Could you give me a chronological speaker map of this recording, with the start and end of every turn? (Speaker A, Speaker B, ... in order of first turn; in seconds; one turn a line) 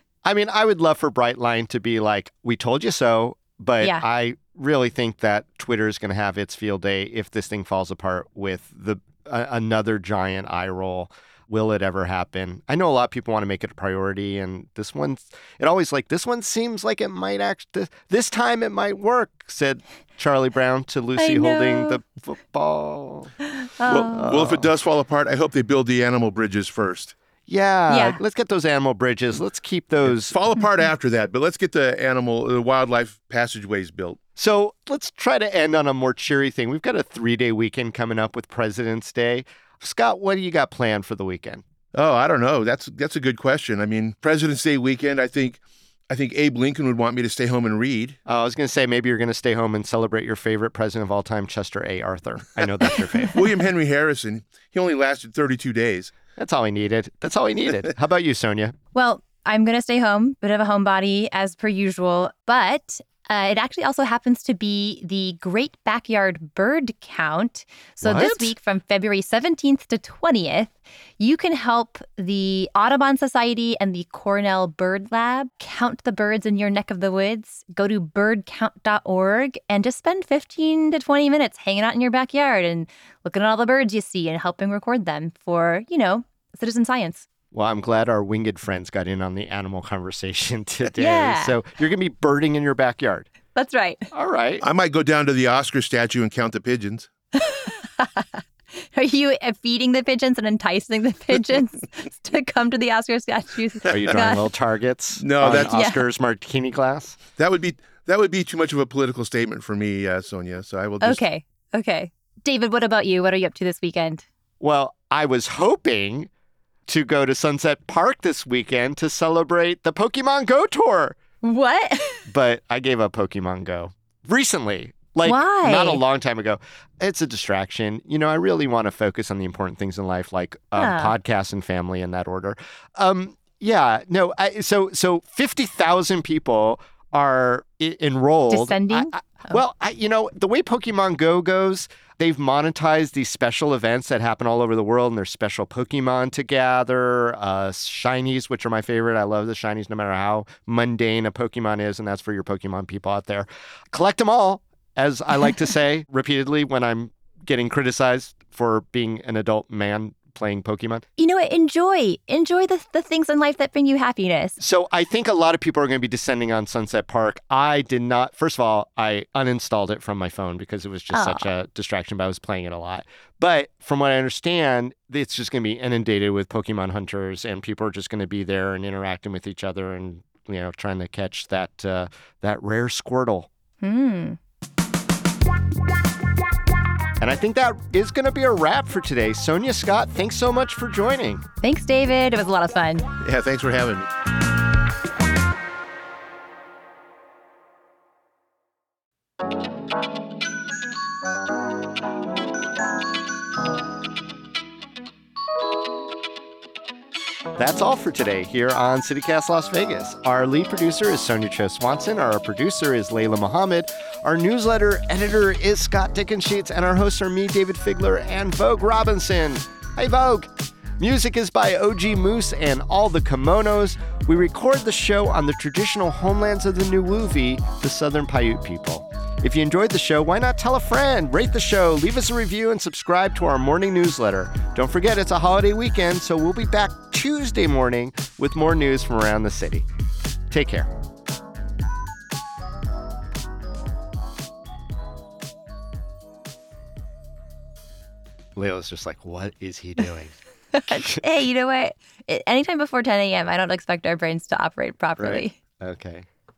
Speaker A: 0.2-23.3
Speaker B: 21.2-22.0
Speaker B: 23.6-24.3
Speaker C: 23.9-27.1
Speaker A: 24.0-24.7
Speaker A: 27.5-30.4
Speaker B: 27.9-28.2
Speaker C: 30.1-34.2
Speaker A: 34.4-41.6
Speaker C: 41.9-48.2
Speaker A: 48.3-53.4
Speaker C: 53.3-56.1
Speaker A: 56.4-58.8
Speaker B: 59.0-87.3
Speaker A: 68.0-68.5
Speaker A: 87.5-93.3
Speaker B: 91.0-91.6
Speaker B: 93.5-94.1
Speaker A: 94.1-94.6
Speaker C: 94.6-97.1
Speaker B: 97.3-104.5
Speaker C: 103.9-104.2
Speaker A: 103.9-107.2
Speaker C: 105.2-105.7
Speaker B: 105.6-106.0
Speaker C: 107.4-111.2
Speaker B: 111.0-114.2
Speaker A: 114.6-116.3
Speaker A: 116.9-121.2
Speaker B: 121.4-122.3
Speaker A: 122.3-161.1
Speaker B: 125.2-126.0
Speaker B: 130.8-131.2
Speaker B: 138.5-139.6
Speaker B: 161.2-164.6
Speaker A: 164.6-183.5
Speaker B: 171.1-171.5
Speaker B: 183.8-184.4
Speaker A: 187.2-191.4
Speaker B: 191.6-193.1
Speaker C: 193.2-194.1
Speaker A: 207.6-239.9
Speaker A: 240.5-240.9
Speaker A: 248.6-250.3
Speaker B: 250.7-255.6
Speaker A: 250.9-251.2
Speaker A: 255.2-256.3